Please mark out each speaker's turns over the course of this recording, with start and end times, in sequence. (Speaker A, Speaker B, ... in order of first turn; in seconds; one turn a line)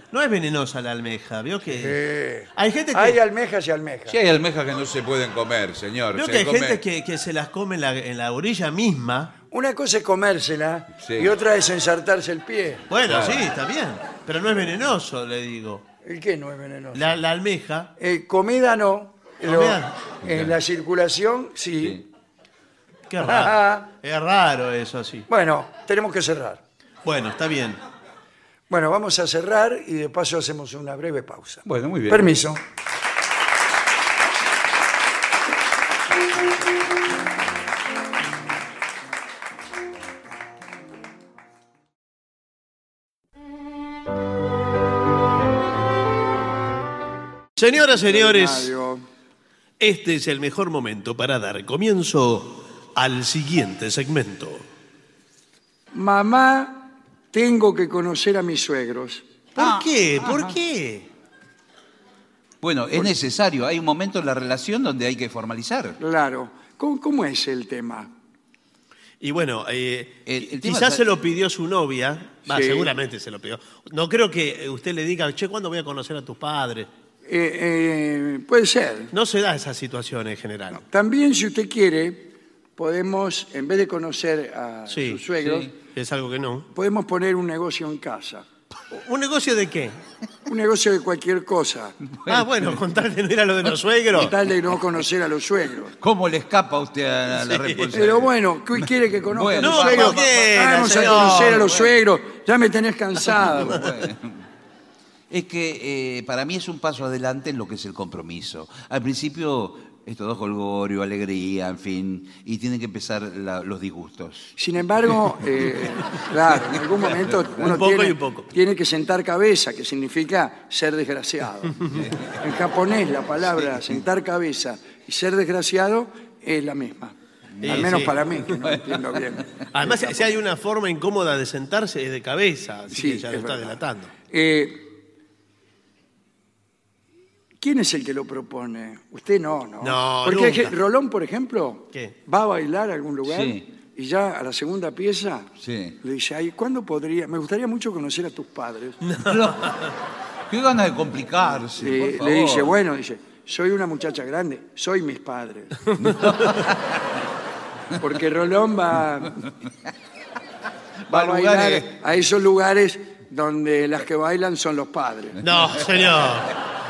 Speaker A: 0.1-2.0
Speaker B: 1.8-4.2
Speaker A: 2.5-3.2
Speaker C: 4.1-6.8
Speaker A: 6.1-9.3
Speaker B: 9.5-12.8
Speaker C: 11.0-11.3
Speaker A: 12.9-15.8
Speaker C: 13.0-13.5
Speaker B: 16.0-17.1
Speaker A: 16.9-17.9
Speaker B: 18.0-22.0
Speaker A: 19.4-20.0
Speaker C: 20.2-20.5
Speaker C: 21.8-22.1
Speaker A: 23.1-25.3
Speaker B: 23.2-23.9
Speaker B: 25.3-26.6
Speaker A: 27.0-27.8
Speaker B: 28.7-32.6
Speaker C: 31.6-32.4
Speaker A: 47.6-48.7
Speaker B: 47.9-49.0
Speaker A: 49.8-54.6
Speaker B: 55.9-59.2
Speaker A: 59.5-61.1
Speaker C: 59.6-60.6
Speaker C: 62.6-66.0
Speaker B: 66.0-68.1
Speaker A: 69.2-76.9
Speaker C: 70.3-71.0
Speaker B: 72.5-72.9
Speaker B: 77.3-79.1
Speaker A: 79.1-80.8
Speaker B: 80.7-85.7
Speaker A: 84.9-86.7
Speaker B: 86.7-88.5
Speaker A: 88.9-90.0
Speaker B: 90.5-92.0
Speaker C: 92.0-92.8
Speaker A: 92.3-94.4
Speaker B: 94.1-96.0
Speaker C: 96.0-101.9
Speaker A: 97.3-98.0
Speaker B: 97.9-103.8
Speaker A: 99.6-101.7
Speaker C: 103.3-104.5
Speaker C: 105.3-114.5
Speaker B: 114.6-129.9
Speaker A: 117.6-118.5
Speaker C: 121.9-122.3
Speaker C: 127.5-129.7
Speaker A: 127.6-128.2
Speaker A: 129.7-134.1
Speaker B: 132.9-134.9
Speaker B: 137.6-149.0
Speaker A: 139.8-140.7
Speaker C: 143.3-143.6
Speaker C: 145.6-146.0
Speaker A: 149.0-149.9
Speaker C: 149.2-149.8
Speaker C: 150.5-152.8
Speaker B: 151.8-155.9
Speaker C: 156.0-157.2
Speaker A: 156.0-156.6
Speaker B: 158.0-159.5
Speaker C: 161.1-161.9
Speaker B: 161.1-165.4
Speaker A: 165.4-166.6